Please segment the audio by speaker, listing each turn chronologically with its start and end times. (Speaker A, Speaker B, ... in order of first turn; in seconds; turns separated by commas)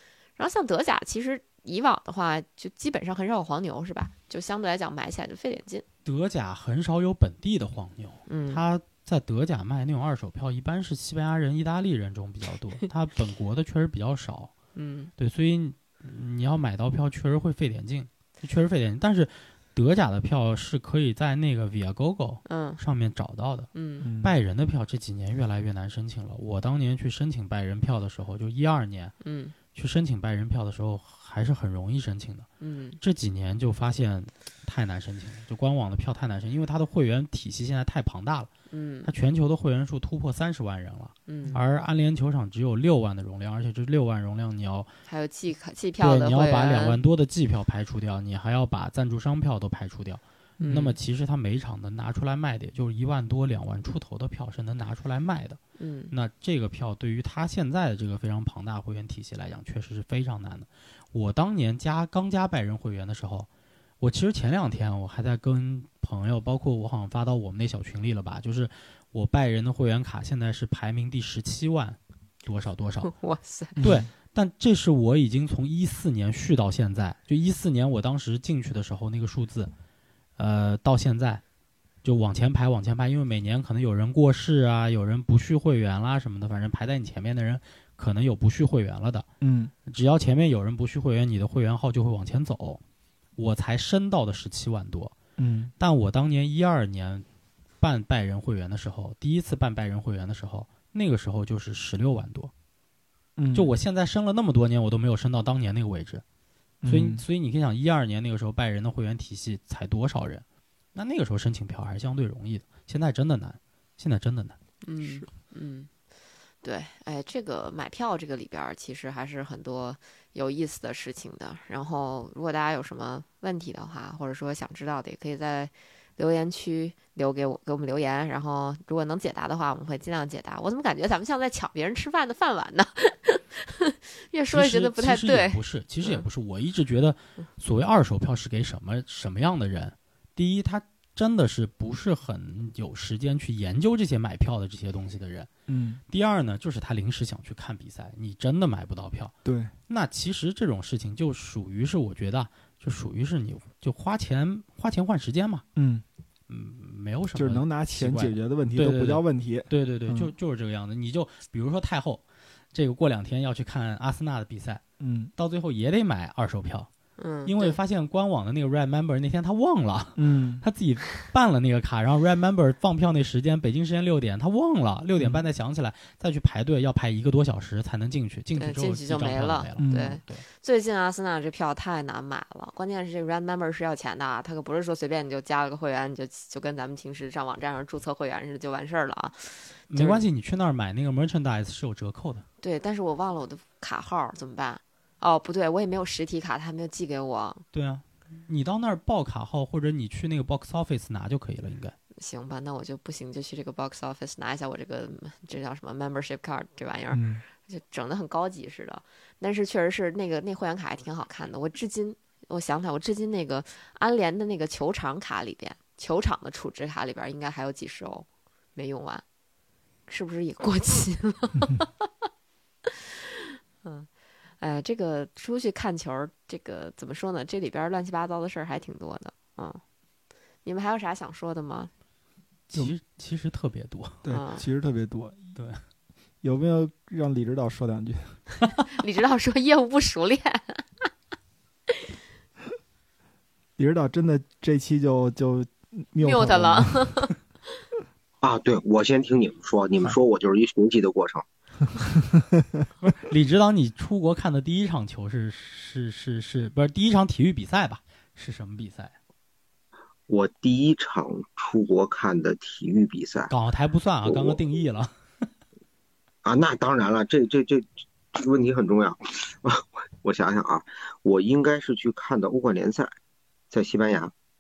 Speaker A: 0.4-5.8, Speaker B: 6.0-14.5, Speaker A: 8.3-8.6, Speaker A: 14.8-15.1, Speaker B: 15.2-29.1, Speaker A: 22.5-22.8, Speaker A: 23.7-24.1, Speaker C: 24.0-24.4, Speaker A: 29.2-29.6, Speaker B: 29.7-32.5, Speaker A: 32.6-33.0, Speaker B: 33.0-38.5, Speaker A: 38.7-39.1, Speaker B: 39.0-44.9, Speaker A: 41.3-41.6, Speaker A: 45.1-47.0, Speaker B: 46.0-55.6, Speaker A: 50.6-51.0, Speaker A: 55.8-56.1, Speaker B: 56.1-63.5, Speaker B: 64.0-73.1, Speaker A: 73.0-73.8, Speaker B: 73.8-79.7, Speaker C: 73.8-74.1, Speaker B: 80.4-81.4, Speaker B: 82.0-89.3, Speaker C: 89.4-89.7, Speaker B: 89.9-92.8, Speaker B: 93.4-95.2, Speaker C: 95.4-95.7, Speaker B: 95.8-97.2, Speaker B: 97.8-102.5, Speaker C: 103.4-103.7, Speaker B: 103.5-106.2, Speaker C: 106.8-107.2, Speaker B: 106.9-110.4, Speaker B: 111.0-114.6, Speaker A: 114.8-115.9, Speaker C: 115.0-115.3, Speaker A: 116.6-136.2, Speaker B: 134.5-145.5, Speaker C: 145.7-146.0, Speaker B: 146.1-149.3, Speaker C: 149.4-149.7, Speaker B: 149.9-155.6, Speaker C: 155.8-156.0, Speaker B: 156.5-162.2, Speaker C: 157.3-160.3, Speaker B: 162.7-164.8, Speaker C: 165.0-165.3, Speaker B: 165.4-166.9, Speaker A: 167.2-167.8, Speaker B: 167.4-180.4, Speaker C: 170.2-170.7, Speaker C: 175.2-175.4, Speaker A: 178.6-190.2, Speaker C: 179.8-180.2, Speaker B: 189.9-192.5, Speaker A: 192.6-197.6, Speaker B: 197.7-202.0, Speaker A: 202.2-219.2, Speaker C: 207.1-207.4, Speaker A: 220.1-222.1, Speaker A: 223.8-224.1, Speaker A: 224.6-229.8, Speaker A: 230.7-231.9, Speaker B: 232.7-234.2, Speaker C: 234.2-235.4, Speaker A: 234.3-234.6, Speaker B: 235.6-235.8, Speaker C: 236.4-238.4, Speaker A: 238.9-241.1, Speaker C: 243.8-247.3, Speaker A: 246.2-247.3, Speaker D: 248.4-251.4, Speaker B: 253.1-259.1, Speaker D: 260.3-263.5, Speaker B: 263.5-265.1, Speaker D: 264.2-264.6, Speaker D: 266.4-273.1, Speaker D: 273.7-274.3